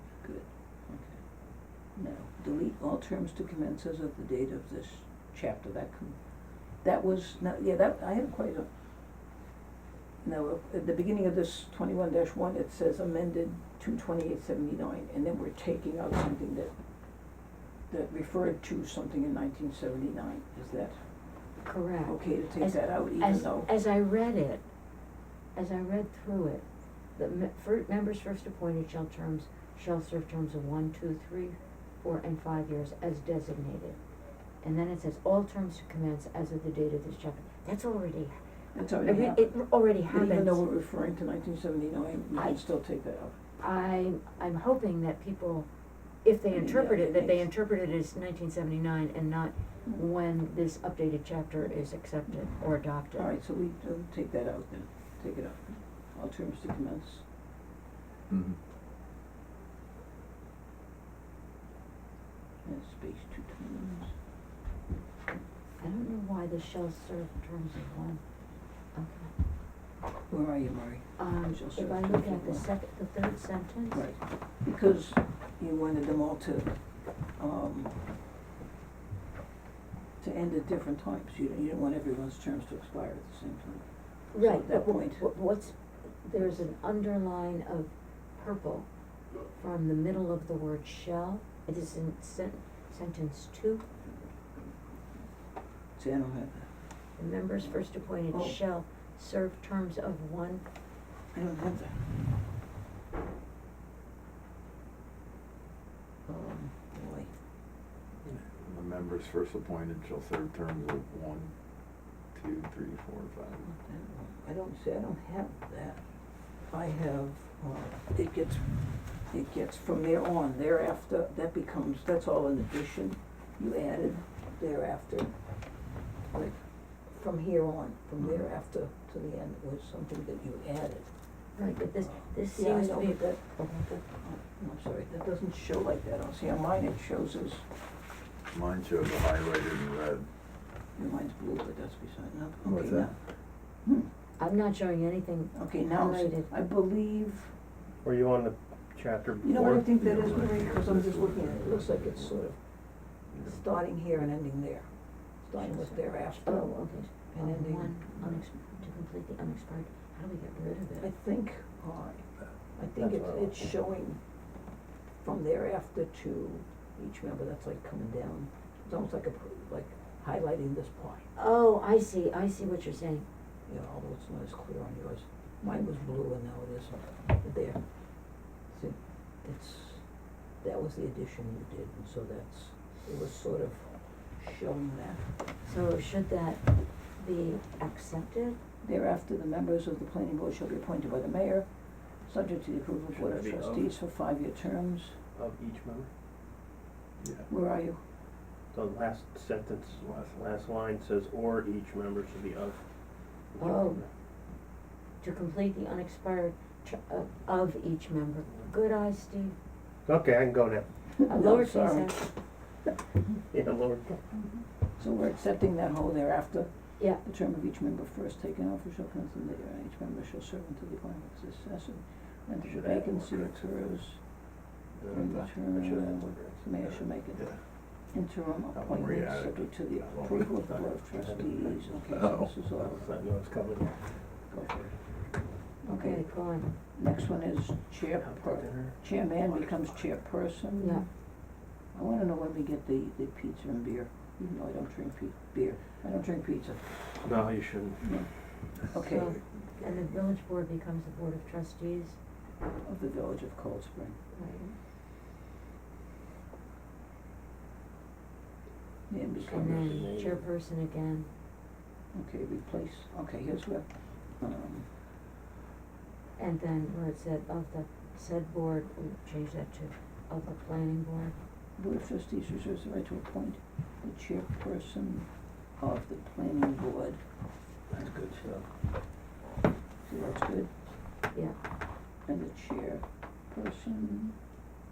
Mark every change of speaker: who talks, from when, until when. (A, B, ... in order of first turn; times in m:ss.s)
0:00.2-0:08.7 A
0:10.2-0:16.7 A
0:17.9-0:23.7 A
0:21.6-0:24.7 B
0:25.6-0:34.0 B
0:34.6-0:38.4 B
0:38.7-0:43.4 A
0:38.9-0:40.6 B
0:42.4-0:42.6 B
0:43.6-0:45.7 B
0:46.2-0:53.3 B
0:46.5-0:47.5 A
0:53.2-0:57.2 A
0:58.3-0:58.6 C
1:02.6-1:04.1 A
1:05.8-1:08.2 B
1:08.9-1:09.3 B
1:10.3-1:12.7 A
1:11.2-1:14.1 B
1:13.9-1:18.0 A
1:20.2-1:25.3 A
1:24.3-1:28.9 B
1:29.4-1:33.9 B
1:36.0-1:37.0 A
1:37.2-1:40.7 B
1:37.6-1:38.6 A
1:41.3-1:42.2 A
1:46.3-1:47.3 A
1:48.4-1:51.5 C
1:52.3-1:53.6 C
1:53.6-2:17.7 A
2:11.6-2:14.0 B
2:18.5-2:20.3 C
2:21.0-2:24.1 A
2:22.6-2:23.1 C
2:24.4-2:26.5 B
2:25.5-2:27.5 A
2:28.0-2:30.0 D
2:29.4-2:38.5 A
2:30.0-2:32.5 C
2:33.3-2:33.6 C
2:35.6-2:41.1 B
2:41.0-2:44.2 A
2:43.0-2:43.7 D
2:45.2-2:51.3 A
2:51.4-2:53.3 B
2:53.7-3:05.3 A
3:05.6-3:08.6 B
3:08.8-3:15.2 A
3:13.1-3:13.9 D
3:15.3-3:16.1 D
3:17.2-3:17.5 C
3:17.5-3:18.0 A
3:18.7-3:24.1 D
3:20.0-3:20.4 C
3:23.6-3:24.1 B
3:25.2-3:29.6 B
3:30.0-3:30.9 D
3:31.2-3:32.6 A
3:31.3-3:32.3 B
3:33.5-3:34.1 D
3:34.9-3:44.4 A
3:42.6-3:44.0 D
3:45.0-3:47.0 D
3:45.1-3:53.2 A
3:45.2-3:45.5 C
3:47.4-3:47.6 C
3:48.7-3:51.0 C
3:50.7-3:51.7 D
3:52.1-3:52.5 C
3:52.8-3:54.2 D
3:54.4-3:55.2 A
3:55.8-4:01.4 A
3:55.9-3:56.7 B
3:58.2-3:59.9 D
4:00.8-4:01.1 B
4:01.9-4:07.5 A
4:07.2-4:08.2 D
4:08.0-4:09.4 A
4:08.9-4:12.2 B
4:12.8-4:14.2 A
4:14.3-4:14.7 B
4:19.1-4:20.1 A
4:19.4-4:20.5 D
4:19.5-4:21.3 B
4:22.1-4:24.9 A
4:26.4-4:31.4 B
4:31.8-4:37.2 A
4:37.7-4:38.5 A
4:37.9-4:38.7 D
4:40.0-4:40.7 A
4:42.2-4:44.4 A